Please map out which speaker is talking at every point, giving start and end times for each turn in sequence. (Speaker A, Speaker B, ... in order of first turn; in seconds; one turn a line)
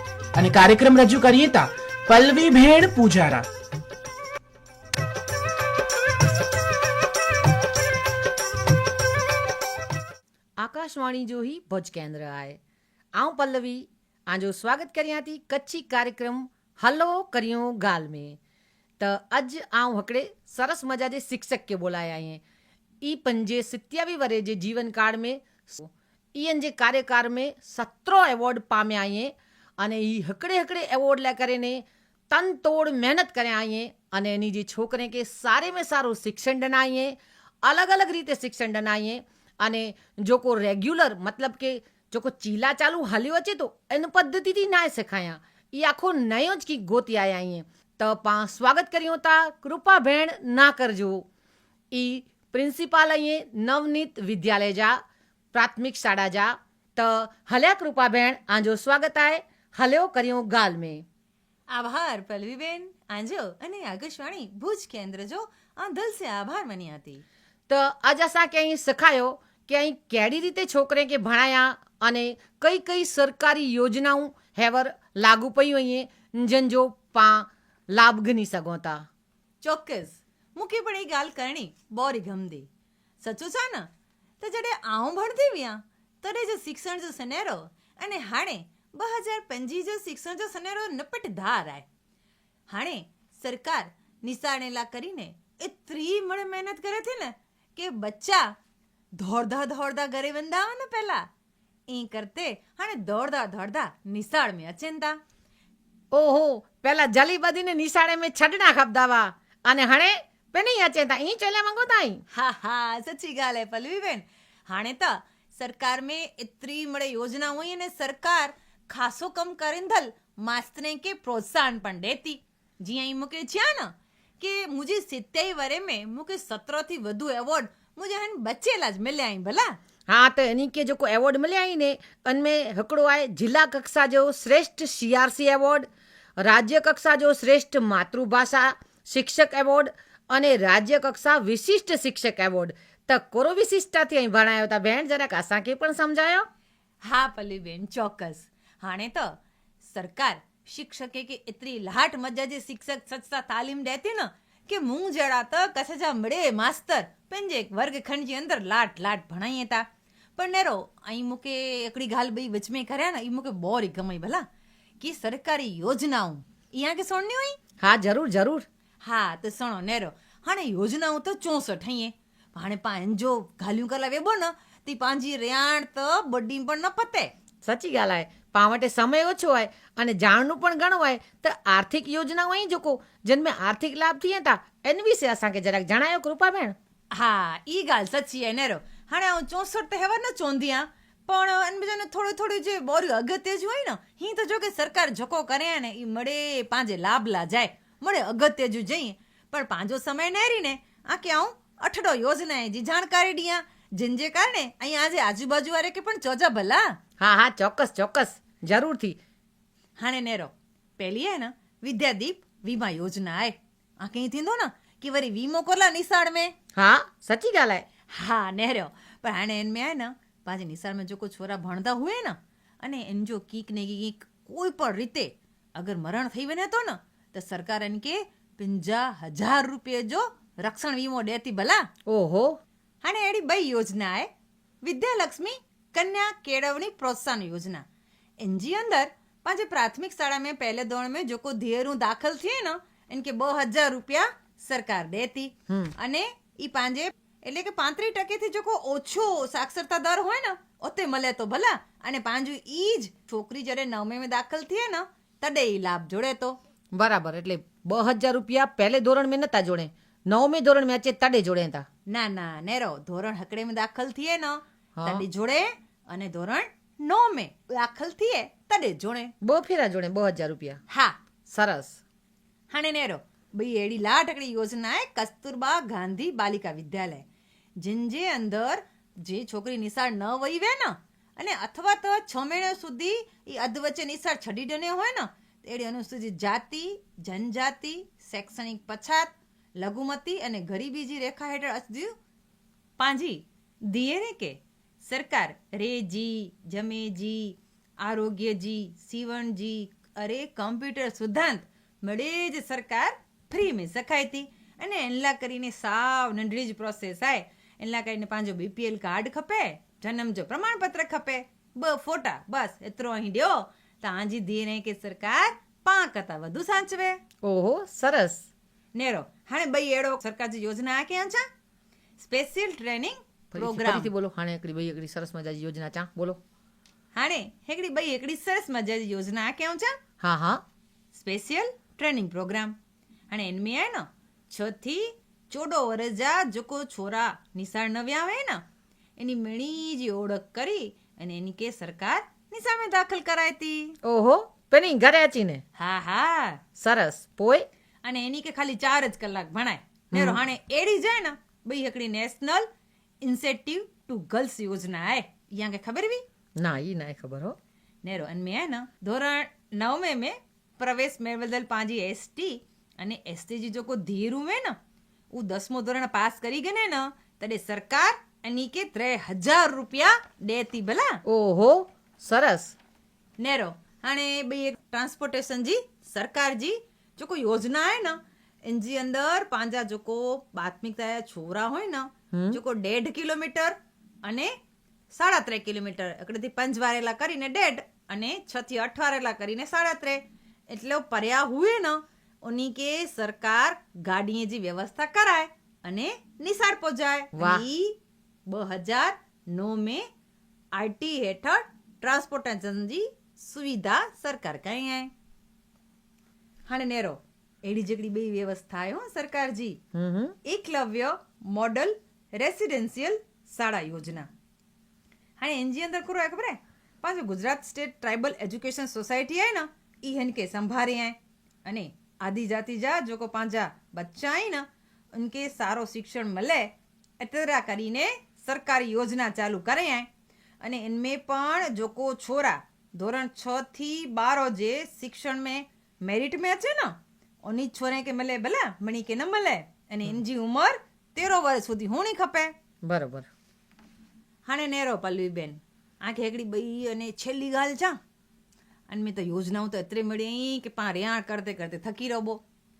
Speaker A: 0.3-3.5
Speaker B: 10.6-12.6
Speaker B: 13.1-18.4
Speaker B: 19.0-22.4
Speaker B: 23.0-51.3
Speaker B: 51.9-55.0
Speaker B: 55.5-61.0
Speaker C: 61.7-67.2
Speaker B: 67.7-79.0
Speaker C: 79.6-82.7
Speaker C: 83.2-83.9
Speaker C: 84.4-91.8
Speaker C: 92.7-98.5
Speaker C: 99.2-101.2
Speaker C: 101.9-105.2
Speaker B: 106.1-112.2
Speaker C: 112.3-129.7
Speaker B: 130.1-146.4
Speaker C: 147.0-159.8
Speaker C: 160.3-164.4
Speaker C: 165.0-167.6
Speaker B: 167.8-168.7
Speaker C: 169.0-177.3
Speaker B: 177.6-186.7
Speaker C: 187.1-206.8
Speaker B: 207.2-209.2
Speaker C: 210.0-216.5
Speaker B: 216.8-217.8
Speaker C: 218.1-231.8
Speaker B: 232.1-232.6
Speaker C: 233.0-234.3
Speaker C: 234.8-237.8
Speaker C: 238.4-256.6
Speaker B: 256.9-261.9
Speaker C: 262.1-269.3
Speaker B: 265.0-265.2
Speaker B: 269.4-270.8
Speaker C: 270.9-271.1
Speaker B: 271.5-272.0
Speaker C: 272.7-277.2
Speaker C: 277.8-292.1
Speaker C: 293.0-317.2
Speaker B: 317.4-318.4
Speaker C: 318.9-321.4
Speaker C: 322.2-324.1
Speaker B: 323.5-326.4
Speaker C: 327.1-329.9
Speaker B: 330.2-330.6
Speaker C: 331.1-332.7
Speaker C: 333.3-338.6
Speaker C: 339.2-343.9
Speaker B: 344.0-345.6
Speaker C: 345.8-346.6
Speaker B: 346.8-347.6
Speaker C: 348.0-352.7
Speaker B: 350.1-350.4
Speaker C: 353.2-356.2
Speaker B: 356.6-357.6
Speaker C: 358.0-364.8
Speaker C: 365.3-371.2
Speaker B: 371.2-372.7
Speaker C: 373.4-384.5
Speaker B: 382.3-382.6
Speaker C: 385.1-400.0
Speaker B: 397.3-397.6
Speaker C: 400.7-405.1
Speaker C: 406.7-409.8
Speaker B: 409.9-410.3
Speaker C: 410.4-414.3
Speaker C: 415.4-426.7
Speaker C: 427.2-430.1
Speaker C: 430.6-442.5
Speaker B: 442.8-443.3
Speaker C: 444.4-448.0
Speaker C: 448.9-452.4